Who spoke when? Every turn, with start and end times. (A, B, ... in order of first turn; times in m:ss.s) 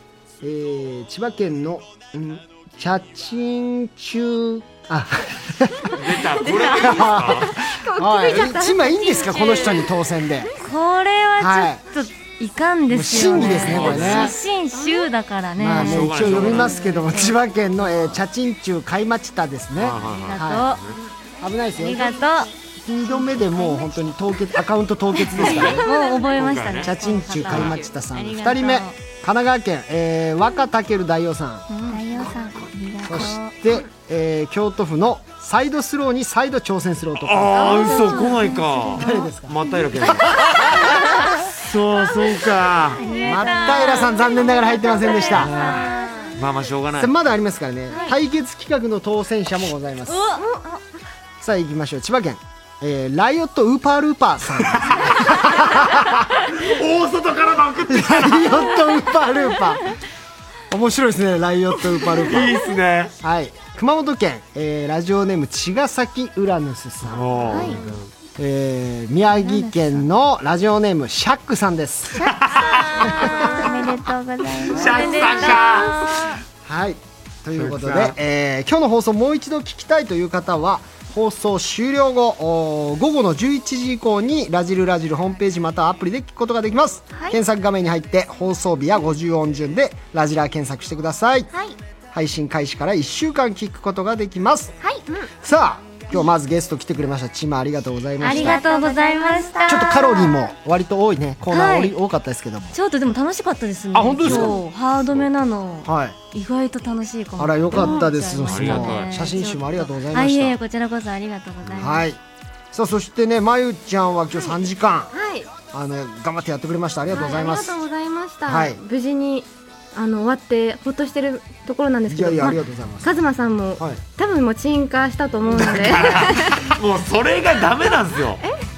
0:00.4-0:06.0 A
0:06.0-0:07.6 B
0:06.4-0:09.9 C
0:06.6-0:10.5 A
0:10.5-0:17.4 D
0:11.4-0:11.8 A
0:12.9-0:14.4 A
0:13.4-0:14.3 B
0:14.7-0:15.1 C
0:15.6-0:20.7 A
0:15.8-0:16.8 B
0:16.5-0:16.9 C
0:19.8-0:21.0 B
0:20.0-0:20.8 D
0:20.9-0:21.1 C
0:21.4-0:25.9 A
0:21.7-0:22.5 D
0:22.0-0:22.3 C
0:25.4-0:25.8 B
0:25.4-0:29.0 D
0:25.4-0:26.3 C
0:26.3-0:27.8 B
0:26.8-0:31.7 A
0:27.5-0:27.9 C
0:31.7-0:32.0 D
0:31.8-0:33.6 E
0:32.2-0:33.3 B
0:33.1-0:38.0 A
0:37.2-0:40.9 B
0:37.8-0:38.6 E
0:37.8-0:38.2 C
0:39.0-0:40.9 A
0:41.4-0:43.0 B
0:43.0-0:46.4 D
0:43.0-0:44.0 E
0:43.2-0:45.9 A
0:46.4-0:47.1 B
0:47.0-0:50.3 A
0:47.9-0:48.2 D
0:50.0-0:50.8 D
0:51.4-0:56.2 A
0:54.7-0:59.0 B
0:57.9-0:59.9 A
1:00.7-1:02.6 A
1:02.1-1:03.1 B
1:03.2-1:12.3 A
1:07.0-1:08.0 B
1:07.5-1:07.9 C
1:09.5-1:09.9 D
1:12.2-1:13.3 B
1:13.0-1:13.6 A
1:13.3-1:15.7 E
1:14.7-1:16.4 B
1:14.7-1:16.4 D
1:16.6-1:31.5 A
1:17.5-1:18.2 B
1:32.1-1:34.7 A
1:35.3-1:38.7 A
1:38.2-1:40.3 D
1:38.2-1:40.3 E
1:39.6-1:42.7 A
1:41.5-1:42.0 D
1:42.7-1:52.1 D
1:43.9-1:44.6 A
1:45.8-1:46.2 A
1:47.4-1:50.6 A
1:48.4-1:49.1 B
1:51.7-1:52.2 A
1:52.7-1:55.1 A
1:55.1-1:55.5 C
1:55.7-1:57.8 A
1:57.1-2:06.6 C
1:58.5-1:58.8 A
2:02.1-2:03.1 A
2:05.6-2:08.4 B